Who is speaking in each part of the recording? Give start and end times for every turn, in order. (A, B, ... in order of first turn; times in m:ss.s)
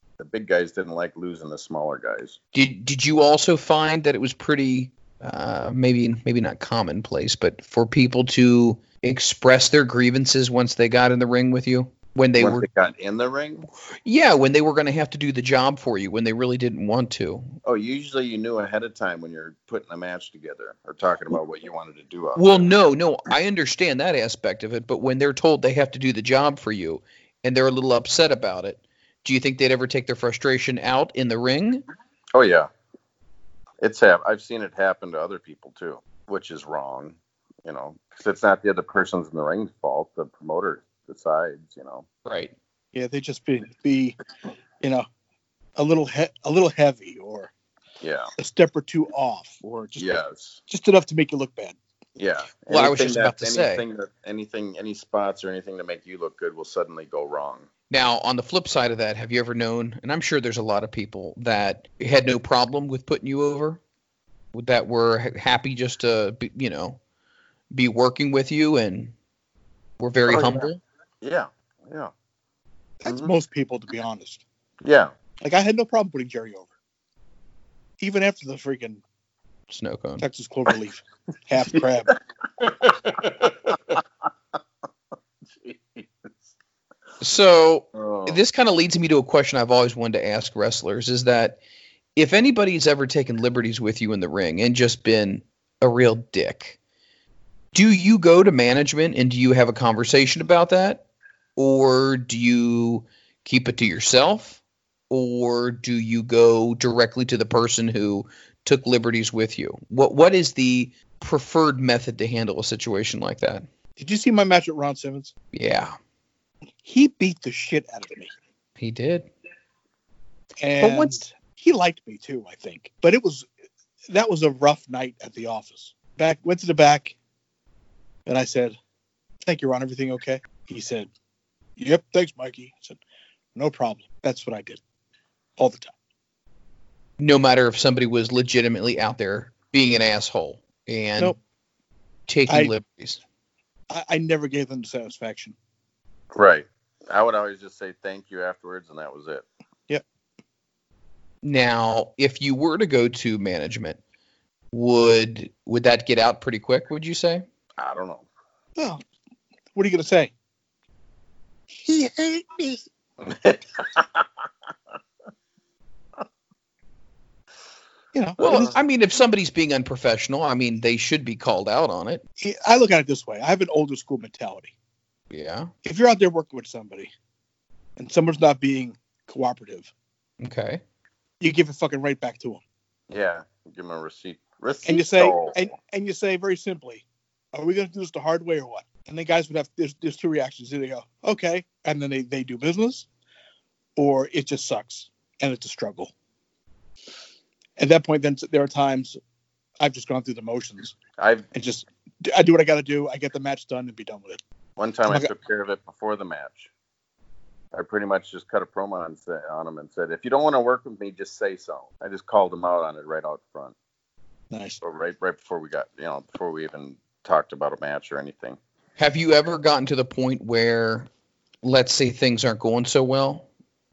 0:00.2-0:02.4 A
0:02.5-0:12.7 B
0:12.4-0:13.6 A
0:14.0-0:17.5 B
0:17.6-0:22.7 A
0:22.4-0:31.8 B
0:32.3-0:32.7 A
0:33.8-0:42.0 A
0:42.2-0:42.5 B
0:42.9-0:44.2 C
0:44.8-0:45.1 C
0:45.8-0:47.5 C
0:48.0-0:48.3 A
0:48.4-0:50.1 C
0:50.0-0:50.6 A
0:50.7-0:51.8 C
0:52.2-0:57.7 A
0:52.7-0:53.8 B
0:57.9-1:03.8 B
1:04.5-1:07.0 B
1:07.7-1:09.1 B
1:10.0-1:10.8 B
1:10.3-1:10.7 A
1:11.2-1:12.1 A
1:13.0-1:14.4 C
1:13.0-1:13.3 A
1:14.8-1:15.1 A
1:15.4-1:16.7 C
1:18.0-1:19.0 C
1:19.7-1:20.2 B
1:20.2-1:22.1 C
1:22.6-1:24.0 A
1:25.5-1:26.3 A
1:27.2-1:31.6 B
1:27.9-1:28.4 A
1:32.2-1:36.8 B
1:37.7-1:41.0 B
1:41.6-1:44.6 B
1:45.1-1:53.6 B
1:54.0-1:55.3 C
1:55.5-1:55.9 B
1:56.8-1:58.3 C
1:58.8-1:59.3 B
2:00.6-2:03.5 C
2:00.8-2:01.2 B
2:04.1-2:07.1 C
2:08.2-2:08.8 C
2:09.4-2:11.1 C
2:11.8-2:13.0 C
2:13.5-2:14.8 C
2:15.6-2:15.9 C
2:17.2-2:21.4 B
2:22.3-2:23.2 B
2:22.5-2:22.7 C
2:23.9-2:25.6 C
2:26.3-2:29.4 A
2:31.4-2:34.0 B
2:34.7-2:37.4 B
2:37.8-2:38.3 A
2:39.7-2:40.3 C
2:41.8-2:42.8 C
2:43.2-2:44.2 A
2:48.1-2:48.7 C
2:48.4-2:52.2 B
2:52.4-2:54.7 C
2:55.3-2:55.7 B
2:55.8-2:57.1 C
2:58.0-2:59.9 C
3:00.4-3:00.8 B
3:01.4-3:02.6 C
3:03.1-3:05.6 A
3:04.8-3:13.1 C
3:14.0-3:16.1 C
3:17.8-3:19.2 C
3:19.8-3:20.9 C
3:21.2-3:21.5 A
3:21.5-3:24.4 C
3:24.8-3:26.7 A
3:27.7-3:33.7 A
3:34.5-3:34.8 C
3:34.8-3:38.6 A
3:39.0-3:41.1 B
3:41.6-3:43.5 B